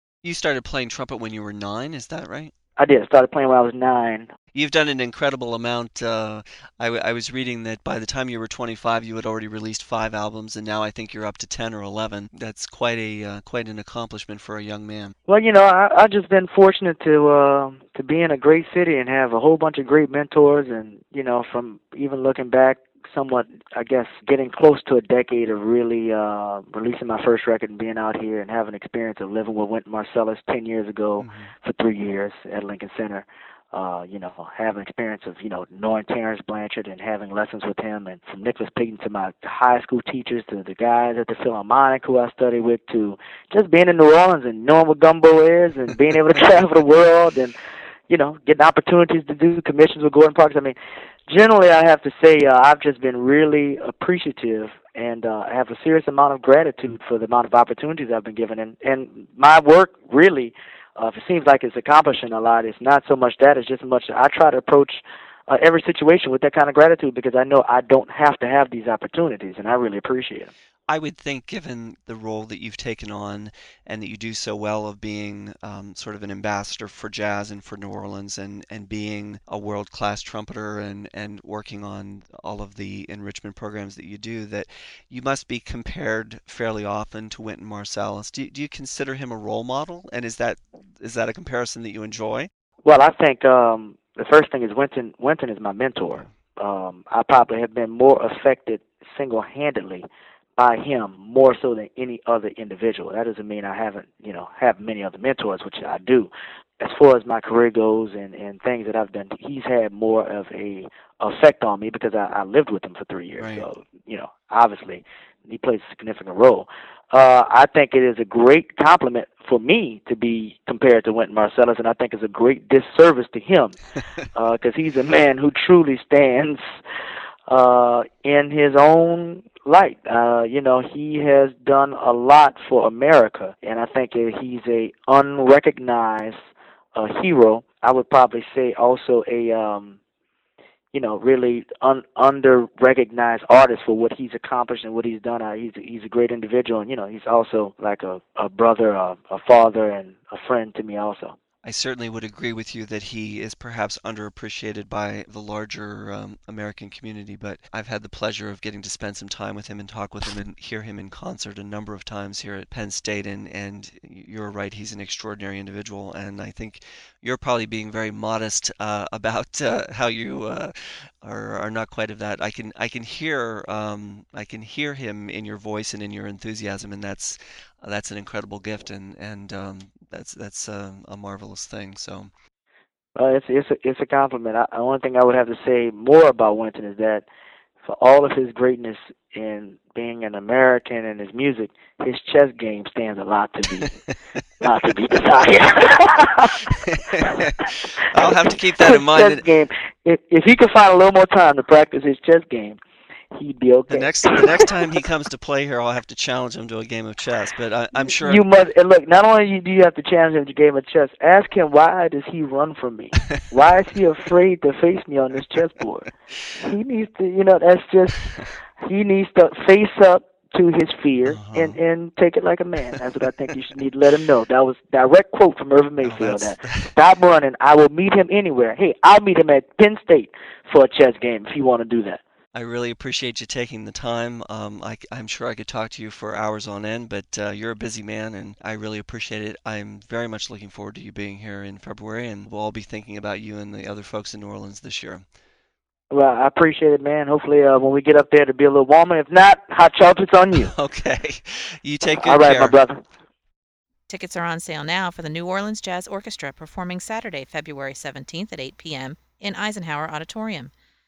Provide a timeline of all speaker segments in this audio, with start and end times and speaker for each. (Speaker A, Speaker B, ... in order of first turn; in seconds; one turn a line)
Speaker A: 0.2-2.5
Speaker B: 2.8-4.3
Speaker A: 4.5-15.1
Speaker B: 15.3-47.5
Speaker A: 31.2-31.5
Speaker B: 48.1-50.8
Speaker B: 51.3-70.5
Speaker A: 70.9-92.5
Speaker B: 92.8-100.0
Speaker B: 100.6-123.8
Speaker A: 113.4-113.7
Speaker B: 124.3-126.6
Speaker B: 127.5-136.4
Speaker B: 136.9-140.0
Speaker B: 140.9-151.3
Speaker A: 151.6-182.3
Speaker B: 183.2-187.2
Speaker B: 187.8-193.9
Speaker A: 193.8-195.4
Speaker B: 194.6-202.8
Speaker A: 196.6-199.5
Speaker B: 203.3-204.9
Speaker A: 203.9-208.4
Speaker B: 208.0-218.2
Speaker B: 218.8-232.2
Speaker A: 221.2-221.8
Speaker A: 226.0-226.9
Speaker A: 232.5-245.2
Speaker B: 246.1-250.7
Speaker A: 250.6-252.8
Speaker B: 252.1-253.0
Speaker C: 254.1-260.7